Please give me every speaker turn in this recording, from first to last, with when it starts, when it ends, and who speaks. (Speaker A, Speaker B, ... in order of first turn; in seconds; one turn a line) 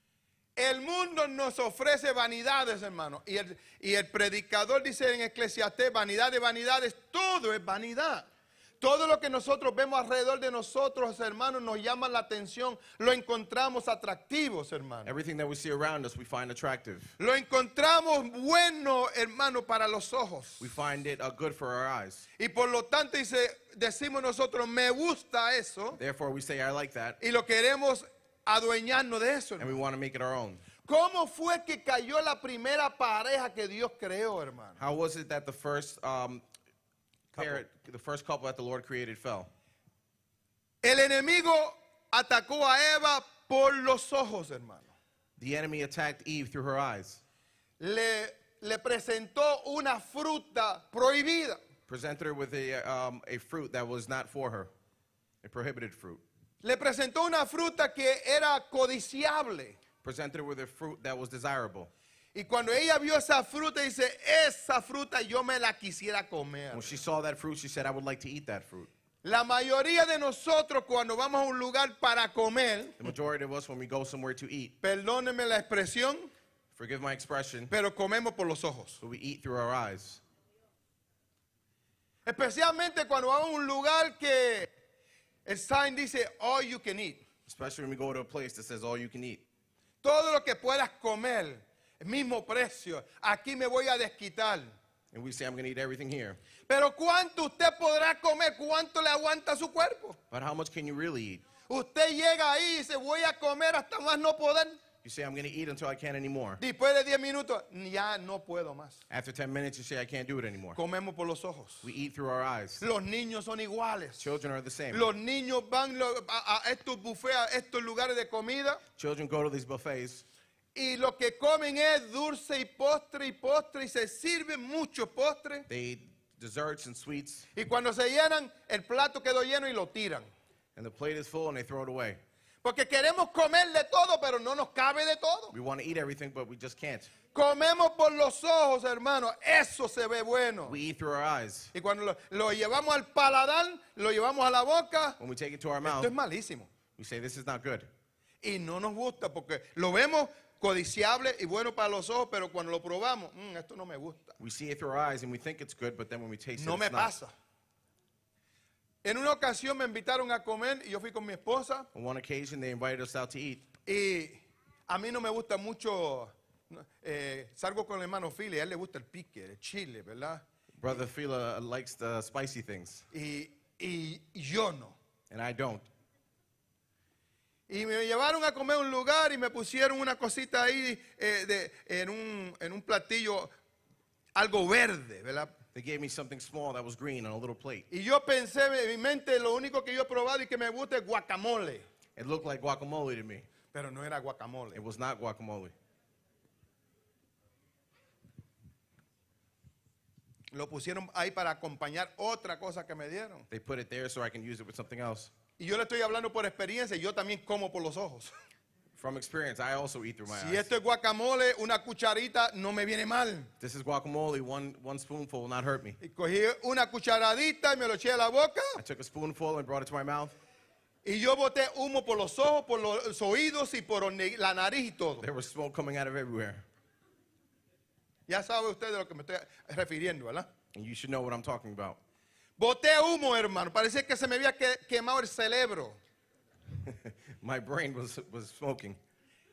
Speaker A: 0.6-8.3
Speaker A: 8.8-15.1
Speaker B: 15.0-17.1
Speaker A: 17.2-20.6
Speaker B: 20.6-22.2
Speaker A: 22.4-26.0
Speaker B: 26.0-27.2
Speaker A: 27.2-29.8
Speaker B: 29.6-30.6
Speaker A: 30.8-34.8
Speaker B: 34.8-36.4
Speaker A: 37.3-37.6
Speaker B: 37.4-39.5
Speaker A: 40.8-44.9
Speaker B: 45.4-47.2
Speaker A: 47.8-51.6
Speaker B: 51.9-54.7
Speaker B: 55.4-56.2
Speaker A: 56.6-59.8
Speaker B: 60.0-61.9
Speaker A: 62.3-67.0
Speaker B: 66.7-68.9
Speaker A: 69.2-73.0
Speaker B: 73.0-74.7
Speaker A: 74.8-76.3
Speaker B: 76.7-77.7
Speaker A: 77.7-79.0
Speaker B: 79.0-80.2
Speaker A: 82.2-84.7
Speaker A: 85.5-87.2
Speaker B: 87.5-89.5
Speaker A: 90.0-94.7
Speaker B: 95.1-96.4
Speaker A: 96.7-100.2
Speaker B: 100.3-101.4
Speaker A: 101.7-104.8
Speaker B: 105.0-106.6
Speaker A: 106.6-109.0
Speaker B: 109.1-110.8
Speaker A: 110.7-111.9
Speaker B: 111.8-112.8
Speaker A: 112.8-114.3
Speaker B: 114.2-115.1
Speaker A: 114.9-118.8
Speaker B: 119.0-120.2
Speaker A: 120.7-125.7
Speaker B: 125.7-127.5
Speaker A: 127.5-130.3
Speaker B: 130.8-132.2
Speaker A: 132.6-135.5
Speaker B: 135.5-137.1
Speaker A: 137.3-140.8
Speaker B: 140.7-141.7
Speaker A: 141.7-145.2
Speaker B: 145.2-146.1
Speaker A: 145.8-146.7
Speaker B: 146.9-147.9
Speaker A: 148.4-154.4
Speaker B: 154.4-157.1
Speaker A: 156.6-157.3
Speaker A: 159.0-161.9
Speaker B: 161.9-163.6
Speaker A: 163.9-170.4
Speaker B: 170.8-173.1
Speaker A: 173.1-175.0
Speaker B: 175.3-175.8
Speaker A: 177.7-183.5
Speaker A: 184.3-185.5
Speaker B: 185.7-187.8
Speaker A: 187.9-191.8
Speaker B: 192.2-193.5
Speaker A: 193.7-194.8
Speaker B: 194.7-195.7
Speaker A: 200.5-203.5
Speaker B: 203.5-205.3
Speaker A: 205.6-208.3
Speaker B: 209.0-210.7
Speaker A: 210.3-213.5
Speaker B: 213.6-216.0
Speaker A: 216.0-218.8
Speaker B: 218.8-220.3
Speaker A: 221.0-225.2
Speaker B: 225.2-226.6
Speaker A: 228.3-230.5
Speaker B: 230.7-232.0
Speaker A: 232.6-236.0
Speaker B: 236.7-239.0